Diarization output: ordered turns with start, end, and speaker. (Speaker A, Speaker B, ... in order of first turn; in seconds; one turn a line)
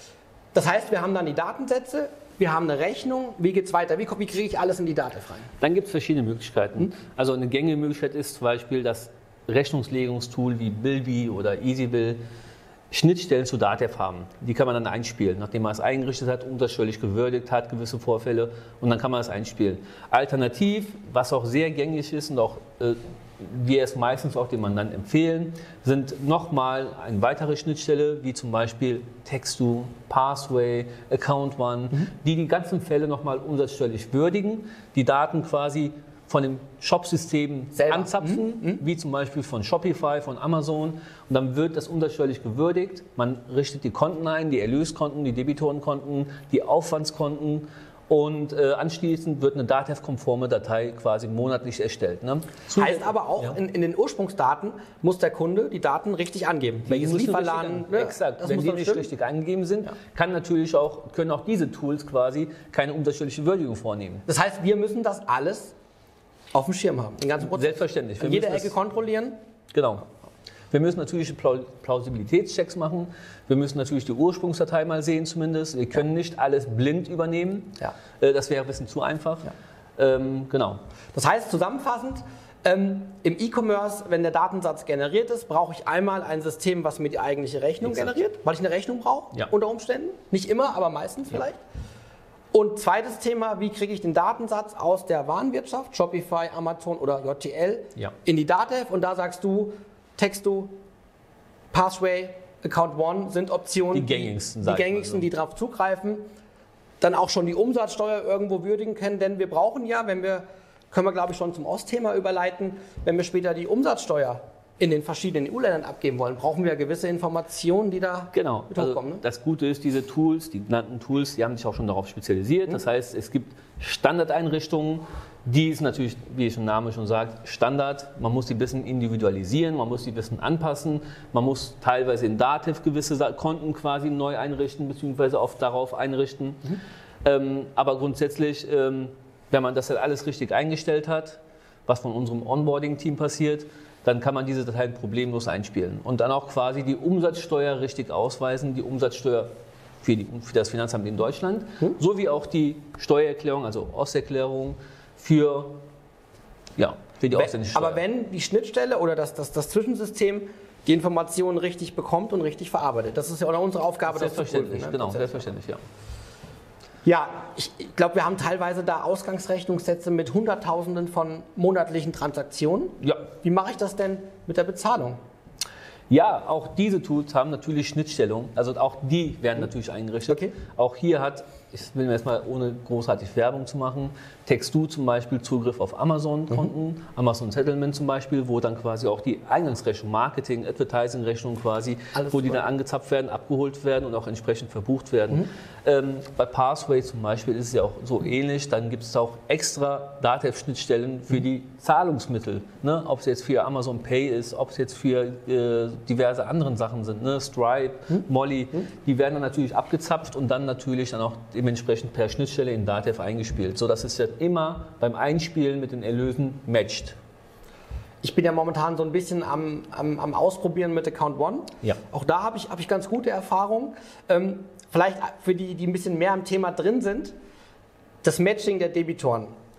Speaker A: 0.5-5.5
Speaker B: 5.6-12.2
Speaker B: 12.9-53.6
Speaker A: 37.8-38.8
Speaker A: 52.8-59.1
Speaker B: 56.9-64.2
Speaker A: 64.3-65.7
Speaker A: 66.5-69.3
Speaker B: 67.4-68.8
Speaker B: 69.7-70.1
Speaker B: 70.7-80.8
Speaker A: 81.1-91.6
Speaker B: 87.8-88.2
Speaker A: 92.5-100.8
Speaker A: 101.7-106.2
Speaker B: 103.9-105.3
Speaker A: 107.0-119.2
Speaker B: 118.3-149.5
Speaker B: 150.0-155.8
Speaker B: 156.8-158.0
Speaker A: 157.3-165.5
Speaker B: 164.1-165.8
Speaker A: 167.1-175.2
Speaker B: 173.0-173.3
Speaker B: 176.1-217.2
Speaker A: 180.3-180.5
Speaker A: 192.2-192.6
Speaker A: 218.2-227.3
Speaker A: 228.2-229.5